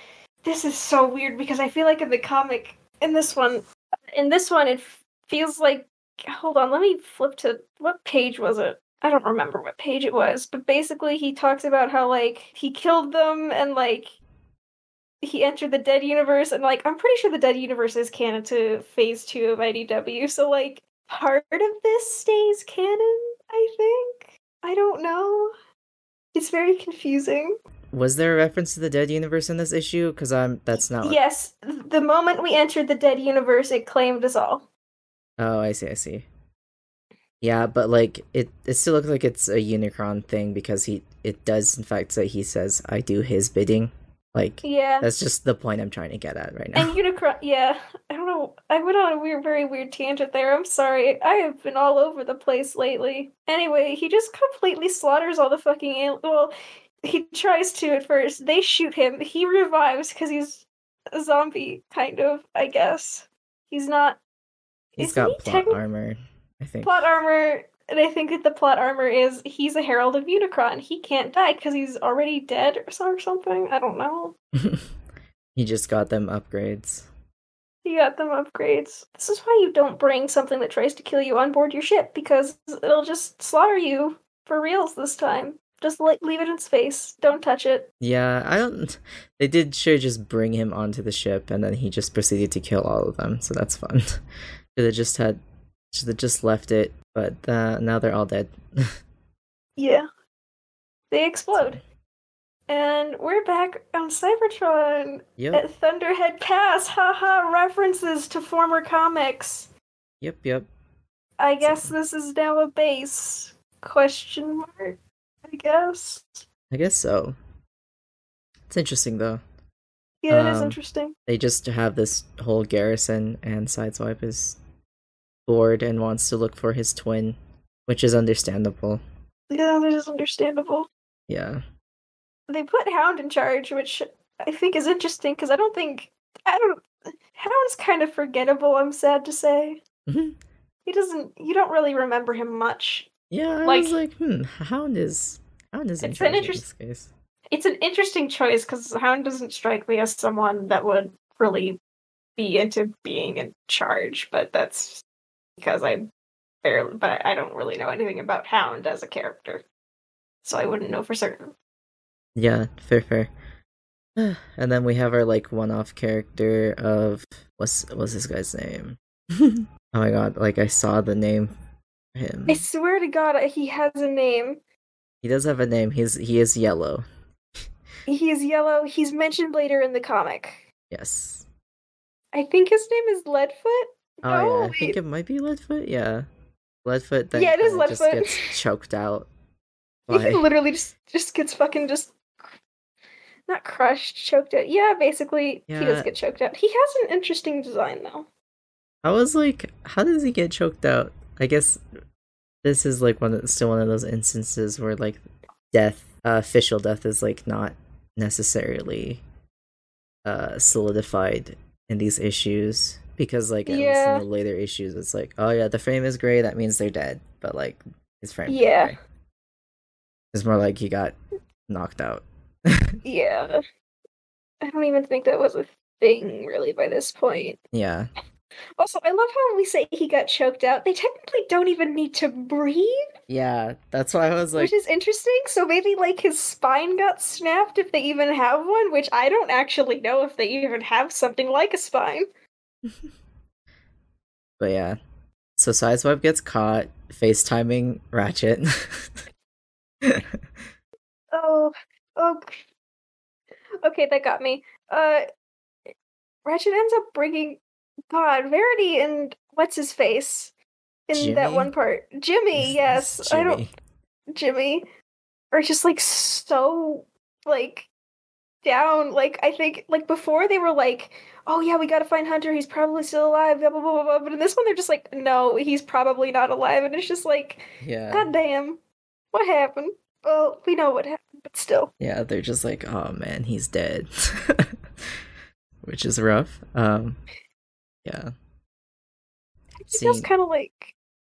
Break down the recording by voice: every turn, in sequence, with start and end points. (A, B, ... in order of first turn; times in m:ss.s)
0:00.4-0:14.2 A
0:15.2-0:25.5 A
0:26.3-0:27.6 A
0:27.9-0:31.2 B
0:30.8-0:34.7 A
0:35.4-0:36.3 B
0:37.4-0:47.0 B
0:44.6-0:45.1 A
0:46.8-1:04.2 A
1:05.0-1:05.8 A
1:05.0-1:07.2 B
1:06.8-1:14.4 A
1:14.6-1:14.9 B
1:15.6-1:17.1 B
1:17.8-1:27.9 A
1:28.0-1:34.2 B
1:34.8-1:35.4 B
1:35.9-1:38.9 B
1:39.8-1:40.1 A
1:41.1-1:41.8 A
1:41.5-1:41.8 B
1:42.7-1:49.7 A
1:45.4-1:45.6 B
1:50.2-1:50.7 B
1:51.4-1:56.4 A
1:51.6-1:51.9 B
1:56.7-1:57.4 B
1:58.7-1:59.4 B
2:00.2-2:01.2 A
2:00.3-2:04.6 B
2:05.5-2:09.0 B
2:09.5-2:10.9 A
2:11.3-2:11.6 B
2:12.5-2:19.8 A
2:20.1-2:20.4 B
2:20.9-2:23.1 A
2:23.3-2:27.1 B
2:23.6-2:24.0 A
2:26.0-2:26.7 A
2:27.5-2:31.8 A
2:32.4-2:35.0 A
2:35.6-2:36.1 A
2:36.6-2:39.6 A
2:40.4-2:41.5 A
2:42.4-2:43.3 B
2:44.2-2:51.5 B
2:52.2-2:52.6 B
2:52.5-2:54.6 A
2:55.2-2:57.0 B
2:58.1-3:00.7 A
3:00.9-3:01.5 B
3:02.3-3:05.0 A
3:04.2-3:06.2 B
3:06.8-3:09.3 B
3:07.3-3:08.5 A
3:10.1-3:12.6 A
3:10.1-3:10.4 B
3:13.5-3:18.3 A
3:15.7-3:16.1 B
3:19.0-3:21.8 B
3:22.6-3:29.2 B
3:30.2-3:39.0 B
3:33.7-3:34.2 A
3:38.5-3:38.9 A
3:40.3-3:41.2 B
3:41.7-3:42.9 B
3:43.0-3:43.6 A
3:44.6-3:47.6 A
3:47.7-3:48.1 B
3:48.8-3:53.0 A
3:53.3-3:54.7 B
3:54.6-4:02.3 A
4:04.6-4:05.0 B
4:05.6-4:09.1 B
4:10.0-4:10.4 B
4:11.3-4:12.6 A
4:13.8-4:15.2 A
4:16.4-4:20.5 A
4:21.1-4:23.6 A
4:21.1-4:21.7 B
4:22.6-4:23.7 B
4:24.3-4:24.9 A
4:25.5-4:27.9 A
4:28.6-4:38.8 A
4:37.8-4:38.3 B
4:39.3-4:41.9 A
4:42.0-4:44.7 B
4:45.8-4:47.2 B
4:48.0-4:48.3 B
4:49.8-4:50.9 A
4:49.9-4:50.3 B